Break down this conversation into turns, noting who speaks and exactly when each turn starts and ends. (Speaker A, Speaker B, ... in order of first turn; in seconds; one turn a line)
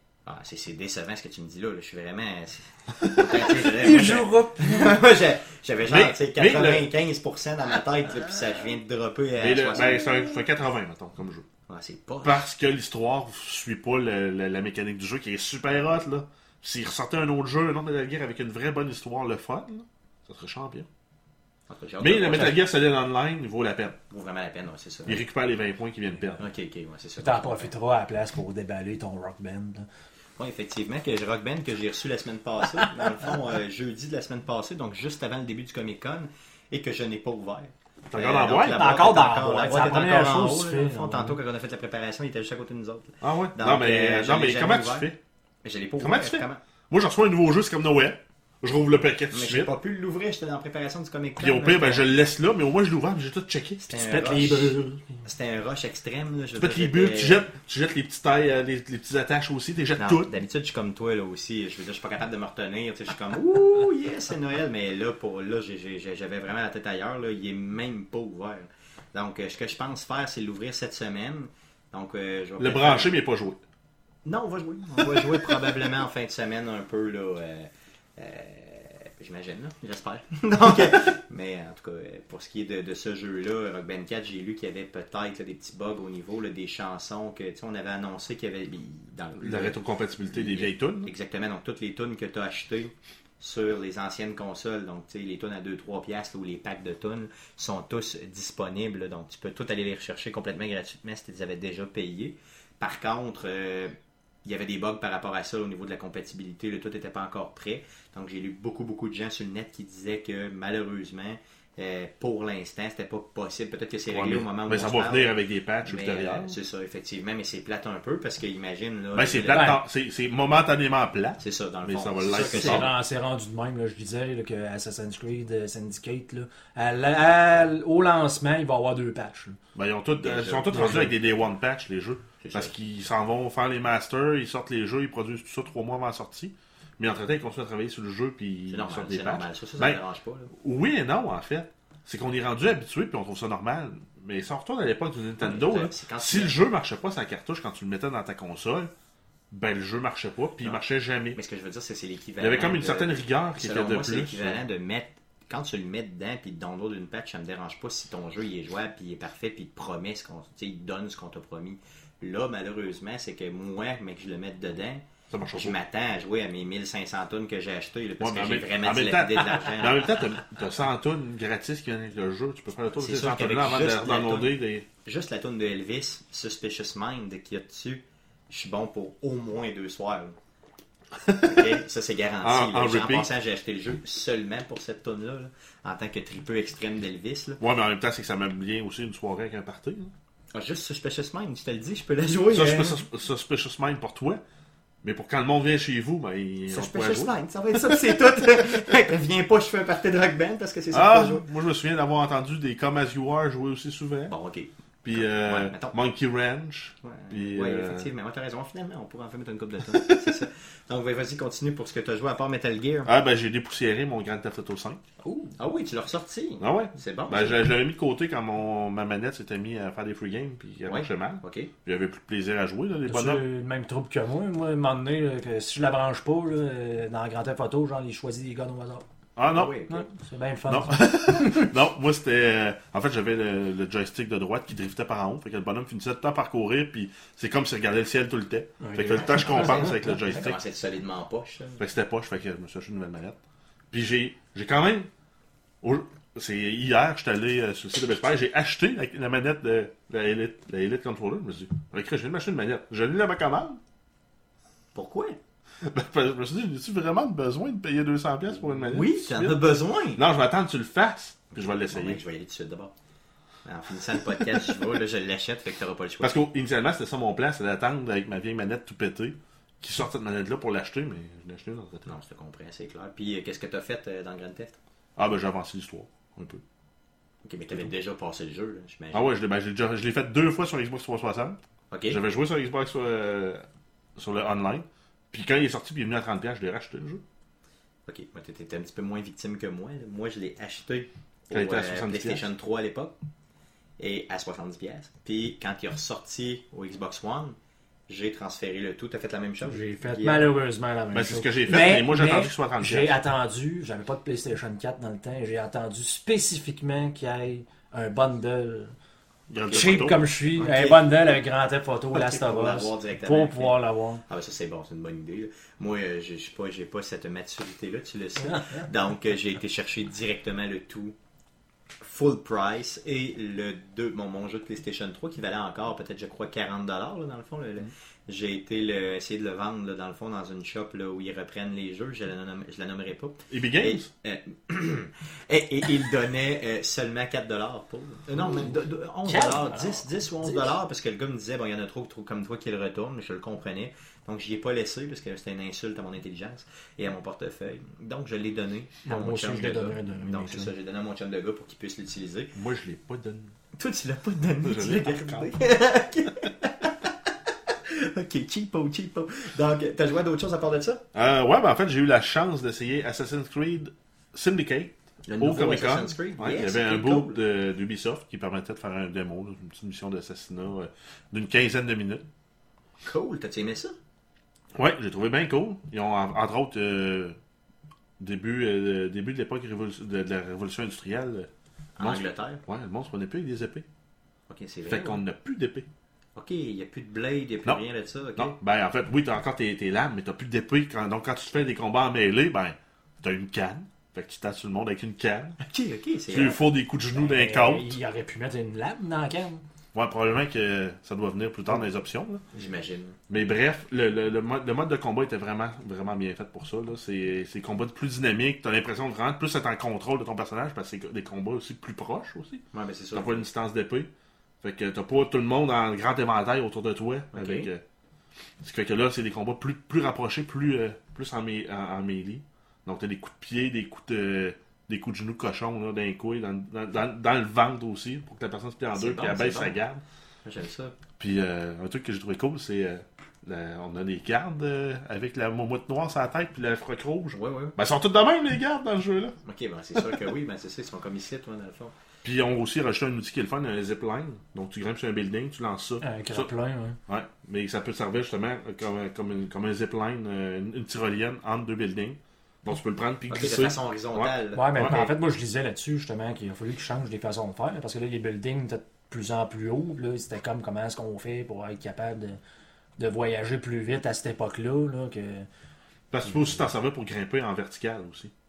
Speaker A: 0.2-10.0
Speaker B: 3.5-5.0
Speaker C: 5.8-6.9
Speaker C: 9.4-11.4
Speaker A: 11.7-12.4
Speaker C: 12.2-20.9
Speaker A: 21.7-22.6
Speaker C: 22.0-24.0
Speaker A: 24.1-25.2
Speaker C: 25.1-26.4
Speaker A: 26.4-27.7
Speaker B: 27.2-29.9
Speaker A: 30.4-45.1
Speaker C: 38.1-38.8
Speaker B: 38.7-41.4
Speaker C: 43.2-45.2
Speaker A: 45.6-46.6
Speaker C: 46.0-49.7
Speaker A: 49.3-52.1
Speaker C: 51.4-53.9
Speaker B: 53.9-55.0
Speaker A: 53.9-57.5
Speaker C: 56.6-60.3
Speaker A: 60.0-73.2
Speaker C: 72.6-73.6
Speaker A: 74.2-115.3
Speaker C: 89.4-91.1
Speaker C: 114.1-116.6
Speaker A: 115.8-119.7
Speaker C: 119.1-122.9
Speaker B: 119.5-119.8
Speaker A: 121.4-122.9
Speaker B: 122.3-129.6
Speaker C: 129.7-140.0
Speaker A: 130.2-131.2
Speaker B: 130.7-131.1
Speaker A: 132.4-132.7
Speaker A: 138.7-140.5
Speaker C: 140.5-148.9
Speaker A: 145.4-146.6
Speaker C: 149.5-151.4
Speaker A: 151.3-170.5
Speaker C: 152.4-154.6
Speaker C: 165.3-165.8
Speaker C: 168.2-174.8
Speaker A: 172.9-174.5
Speaker A: 175.0-180.3
Speaker C: 181.1-181.8
Speaker A: 181.4-187.6
Speaker C: 182.4-183.3
Speaker C: 187.6-190.1
Speaker A: 190.5-193.0
Speaker C: 192.5-194.4
Speaker C: 195.0-198.1
Speaker A: 196.7-201.4
Speaker C: 200.9-204.3
Speaker A: 204.3-205.9
Speaker C: 205.0-208.1
Speaker A: 207.0-213.1
Speaker C: 209.9-210.4
Speaker C: 213.0-215.0
Speaker A: 215.2-217.6
Speaker C: 216.6-223.4
Speaker A: 220.8-221.7
Speaker B: 223.1-229.0
Speaker C: 229.3-229.8
Speaker A: 229.5-230.0
Speaker B: 229.9-231.7
Speaker C: 230.7-240.6
Speaker B: 238.8-240.1
Speaker A: 239.3-241.8
Speaker C: 241.8-243.4
Speaker C: 243.9-245.1
Speaker C: 245.8-253.8
Speaker A: 254.9-255.4
Speaker C: 255.8-259.6
Speaker A: 258.7-260.2
Speaker C: 260.1-262.2
Speaker A: 261.6-262.9
Speaker A: 263.6-266.3
Speaker C: 266.2-272.1
Speaker A: 272.1-274.8
Speaker C: 275.1-276.6
Speaker A: 277.4-279.3
Speaker C: 279.1-287.2
Speaker A: 281.9-282.2
Speaker A: 288.1-293.1
Speaker C: 291.5-292.4
Speaker A: 294.0-297.6
Speaker A: 298.1-300.5
Speaker B: 299.6-308.9
Speaker C: 301.1-303.1
Speaker C: 309.5-310.2
Speaker A: 309.6-311.1
Speaker B: 309.7-314.2
Speaker A: 312.1-321.1
Speaker B: 318.4-318.9
Speaker A: 322.0-352.6
Speaker C: 333.5-334.1
Speaker B: 338.4-340.7
Speaker B: 349.0-350.7
Speaker C: 352.5-353.5
Speaker A: 353.8-361.0
Speaker C: 354.6-355.5
Speaker C: 361.1-372.2
Speaker A: 365.3-367.4
Speaker A: 373.0-373.9
Speaker C: 374.7-377.4
Speaker C: 378.2-381.5
Speaker A: 382.0-382.6
Speaker C: 382.0-383.9
Speaker A: 384.5-385.2
Speaker C: 384.9-385.9
Speaker A: 386.4-388.6
Speaker C: 388.4-395.6
Speaker A: 395.6-396.6
Speaker C: 396.3-398.0
Speaker B: 397.1-399.6
Speaker C: 399.9-402.4
Speaker A: 402.5-403.2
Speaker C: 403.3-412.6
Speaker A: 412.7-413.4
Speaker C: 413.1-414.1
Speaker C: 414.6-417.8
Speaker A: 417.3-417.7
Speaker C: 418.6-430.0
Speaker A: 428.9-429.8
Speaker A: 430.4-431.0
Speaker C: 431.2-439.3
Speaker A: 437.3-437.8
Speaker A: 439.4-441.9
Speaker C: 442.2-446.5
Speaker B: 446.0-447.0
Speaker C: 447.1-455.0
Speaker A: 453.3-455.1
Speaker B: 454.5-462.4
Speaker B: 463.0-465.5
Speaker C: 466.1-468.3